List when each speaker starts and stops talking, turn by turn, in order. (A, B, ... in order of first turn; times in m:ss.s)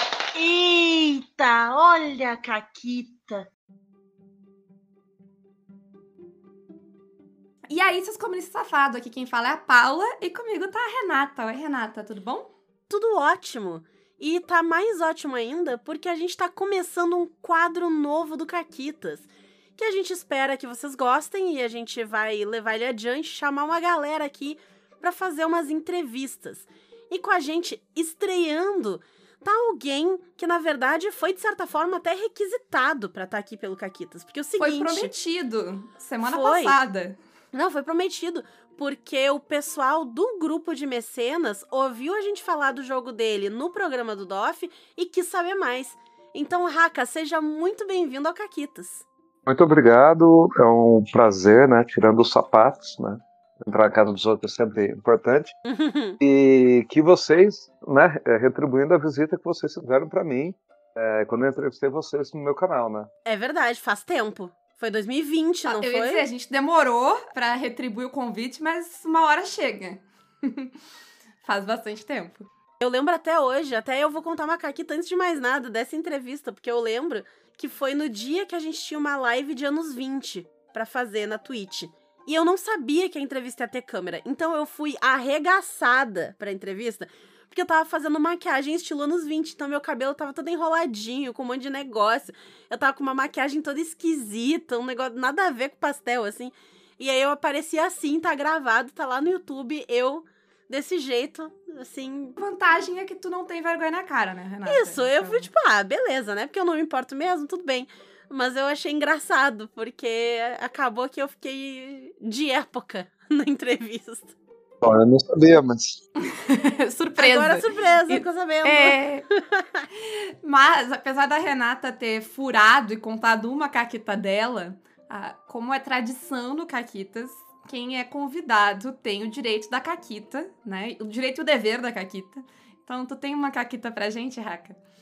0:00.3-0:03.4 A
0:07.7-0:12.5 B
0:12.9-0:35.1 C
0:34.6-0:37.2 B
0:36.2-0:36.8 C
0:37.5-0:49.0 C
0:49.4-0:55.5 D
0:55.6-0:56.2 C
0:56.2-1:03.1 D
1:03.2-1:06.3 C
1:05.6-1:10.7 B
1:11.4-1:12.5 B
1:12.8-1:42.4 C
1:42.4-1:45.5 B
1:44.6-1:54.3 C
1:54.8-1:56.0 D
1:56.2-1:59.2 B
1:57.2-1:59.8 C
2:00.0-2:14.8 B